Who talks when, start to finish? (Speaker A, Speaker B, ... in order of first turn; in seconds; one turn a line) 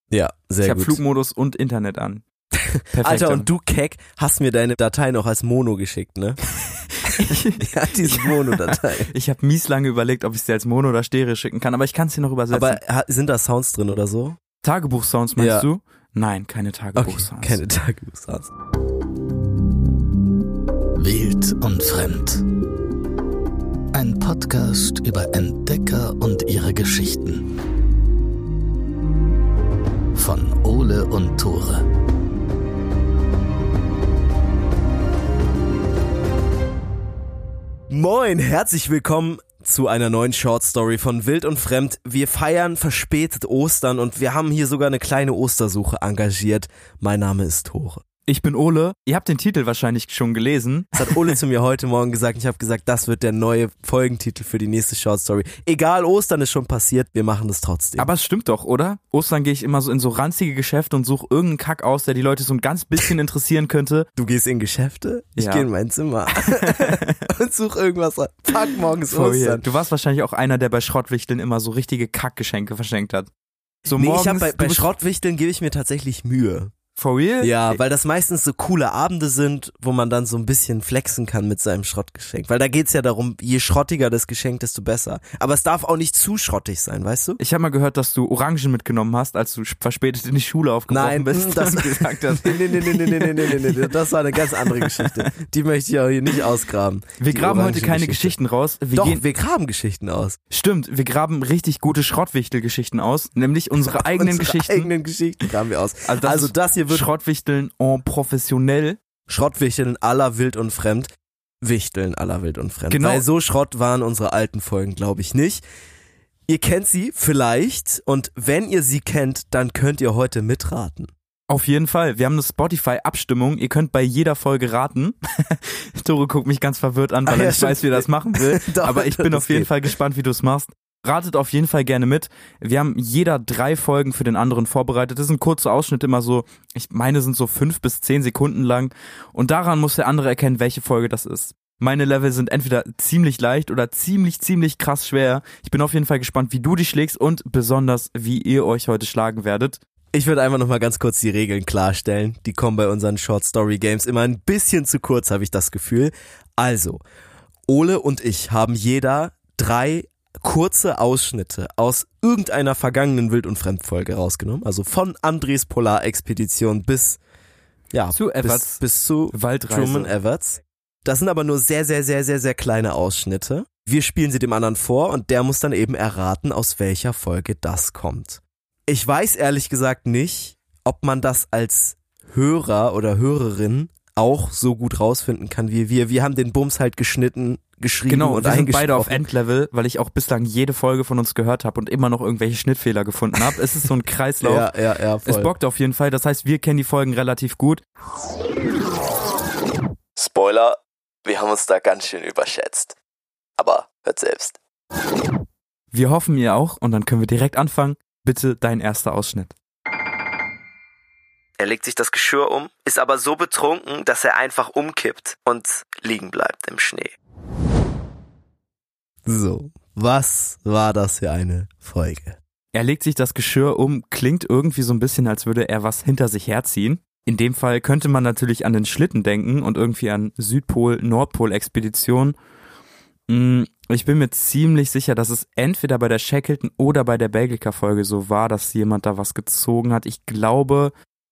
Speaker A: 0.1-1.0
Speaker B: 0.6-2.2
Speaker A: 2.5-6.4
Speaker B: 2.9-3.5
Speaker B: 7.0-12.8
Speaker A: 7.1-9.1
Speaker A: 12.5-14.4
Speaker B: 14.6-17.6
Speaker A: 15.4-15.7
Speaker A: 16.9-18.5
Speaker C: 21.0-22.4
Speaker C: 23.9-27.4
Speaker C: 30.1-31.8
Speaker A: 37.9-48.0
Speaker B: 48.3-50.9
Speaker A: 51.0-58.1
Speaker B: 58.0-64.1
Speaker A: 64.2-69.6
Speaker B: 65.4-65.7
Speaker B: 66.4-67.3
Speaker B: 69.1-73.3
Speaker B: 73.9-74.9
Speaker A: 73.9-76.7
Speaker B: 77.0-77.8
Speaker A: 77.4-87.4
Speaker B: 87.4-95.3
Speaker A: 90.9-98.4
Speaker B: 97.2-99.2
Speaker A: 98.9-100.4
Speaker B: 100.5-104.9
Speaker A: 103.8-107.1
Speaker B: 106.0-109.0
Speaker A: 109.3-111.1
Speaker A: 111.6-115.6
Speaker B: 112.9-113.2
Speaker A: 116.5-121.1
Speaker B: 121.5-149.8
Speaker A: 127.2-129.7
Speaker A: 150.1-157.0
Speaker A: 157.7-167.2
Speaker A: 167.9-189.2
Speaker B: 168.1-170.1
Speaker B: 188.1-194.7
Speaker A: 194.4-195.5
Speaker B: 195.2-197.8
Speaker A: 200.2-203.0
Speaker A: 203.6-204.6
Speaker B: 205.9-209.5
Speaker A: 211.6-217.1
Speaker A: 219.2-222.4
Speaker B: 222.7-232.4
Speaker B: 233.3-240.9